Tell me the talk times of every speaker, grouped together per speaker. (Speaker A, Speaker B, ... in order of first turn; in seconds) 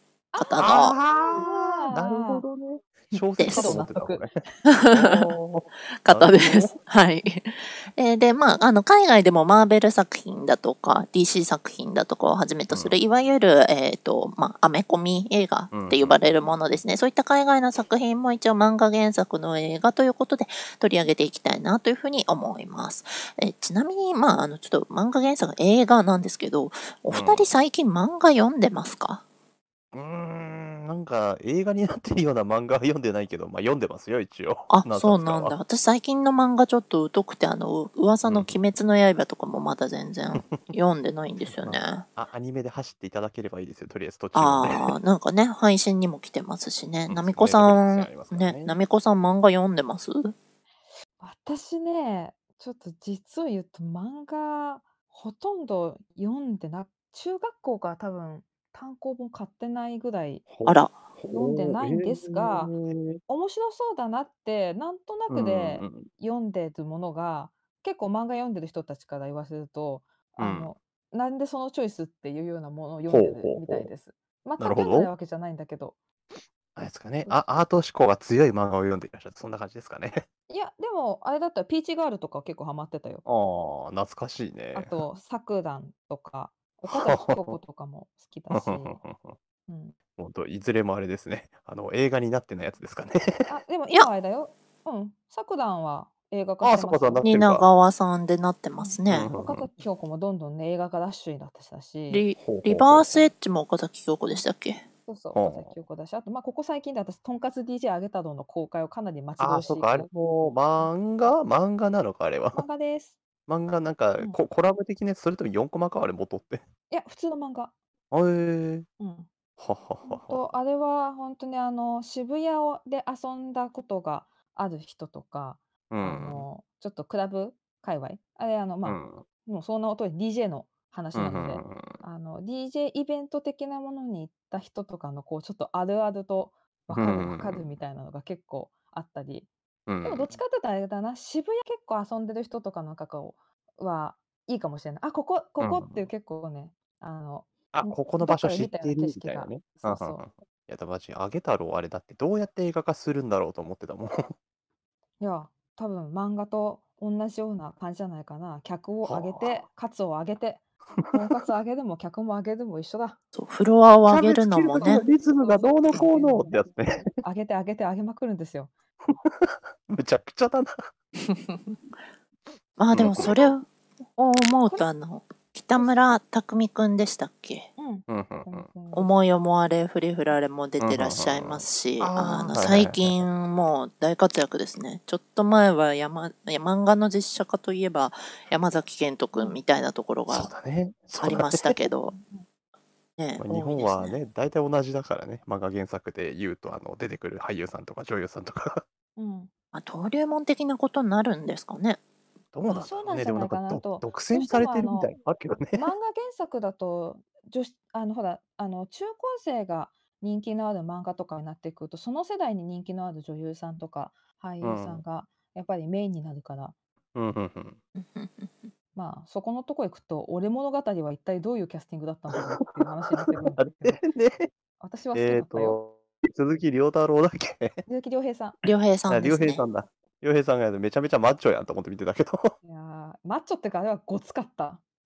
Speaker A: 0.3-2.4, 3.5-4.2, 51.2-60.5, 61.3-62.7, 63.3-76.0, 77.2-77.5, 80.5-83.2, 84.7-89.0, 89.7-90.0, 93.5-97.3, 98.8-102.2, 105.1-110.1, 112.5-113.2, 116.9-117.7, 119.0-119.3, 120.0-139.5, 140.0-150.2, 155.2-163.2, 165.0-168.7, 175.8-176.1, 177.8-179.1, 192.1-192.4, 199.2-199.5, 202.7-205.1, 205.8-216.8, 218.9-224.0, 224.8-225.8, 227.8-228.6, 232.6-234.8
Speaker B: 0.4-1.0, 3.4-3.8, 4.7-5.3, 6.0-29.2, 34.7-42.1, 44.3-50.3, 60.6-60.9, 97.2-99.3, 102.1-104.8, 163.3-165.1, 171.2-171.7, 172.8-177.7, 178.9-190.5, 191.2-192.1, 193.2-194.1, 199.7-202.0, 218.0-218.7, 228.6-229.6
Speaker C: 0.6-4.4, 4.9-6.7, 12.7-13.0, 15.7-16.1, 27.1-27.5, 29.9-35.5, 41.5-44.9, 47.1-48.7, 60.5-63.2, 65.3-66.0, 70.4-70.7, 73.1-73.9, 74.6-75.1, 76.8-80.2, 83.2-85.0, 86.9-87.6, 88.5-89.3, 90.2-93.4, 96.6-97.7, 99.1-99.7, 102.4-103.3, 105.3-105.7, 109.4-112.7, 113.5-116.6, 118.1-118.9, 119.6-120.4, 125.9-126.5, 128.8-129.2, 131.1-132.0, 136.9-137.6, 139.9-140.4, 145.6-146.1, 147.7-154.3, 159.0-159.6, 164.1-167.0, 169.2-170.9, 172.9-173.5, 178.1-178.7, 180.8-183.2, 190.3-191.7, 193.4-198.8, 202.5-205.9, 214.6-215.0, 217.1-217.8, 223.2-224.5, 225.1-227.8, 229.1-232.5